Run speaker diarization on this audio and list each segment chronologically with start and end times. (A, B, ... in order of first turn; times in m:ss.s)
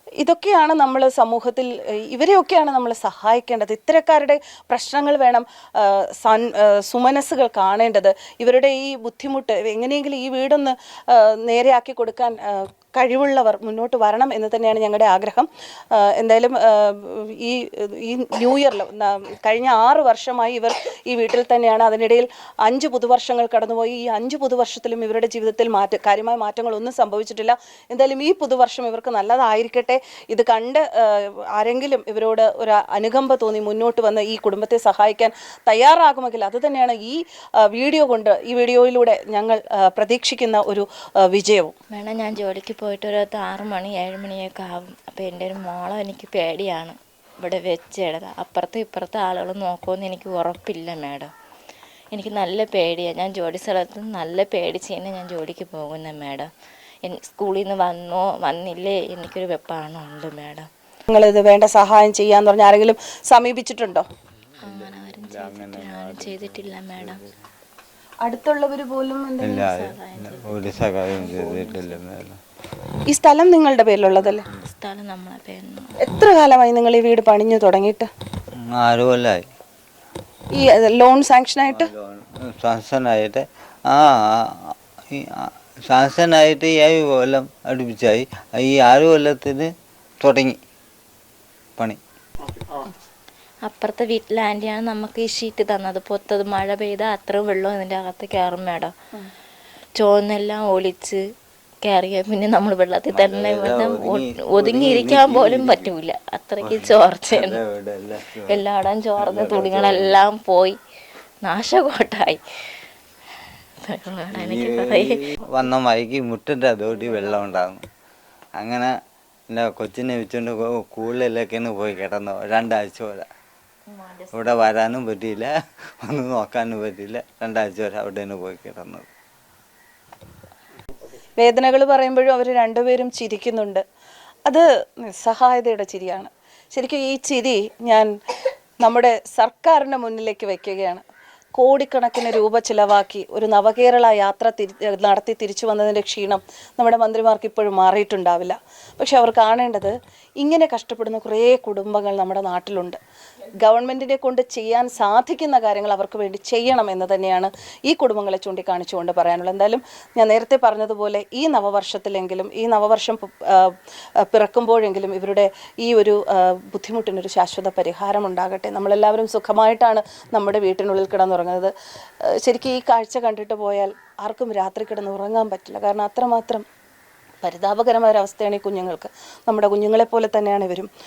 0:00.2-0:41.7 A
0:41.9-0:51.3 B
0:52.1-0:56.5 B
0:57.0-1:00.7 B
1:01.1-1:04.1 A
1:04.6-1:07.3 C
1:04.6-1:07.2 B
1:08.2-1:09.6 A
1:09.4-1:12.4 C
1:09.4-1:12.0 B
1:13.1-1:14.4 A
1:14.5-1:16.0 B
1:16.0-1:18.1 A
1:18.7-1:19.5 C
1:20.5-1:21.9 A
1:21.6-1:30.6 C
1:33.7-1:38.9 B
1:40.0-1:41.2 B
1:41.8-1:47.6 B
1:43.1-1:45.9 C
1:46.6-1:48.6 C
1:48.5-1:50.8 B
1:49.2-1:50.2 C
1:51.4-1:52.4 B
1:53.8-1:55.7 B
1:54.3-1:57.8 C
1:56.9-1:57.4 B
1:58.6-1:58.9 C
1:59.5-2:03.3 C
2:03.9-2:04.6 B
2:04.3-2:09.1 C
2:11.4-2:13.8 A
2:14.5-2:18.1 A
2:18.8-2:21.0 A
2:21.6-2:33.0 A
2:33.6-2:43.8 A
2:44.3-2:51.7 A
2:52.4-2:56.6 A
2:57.4-3:00.9 A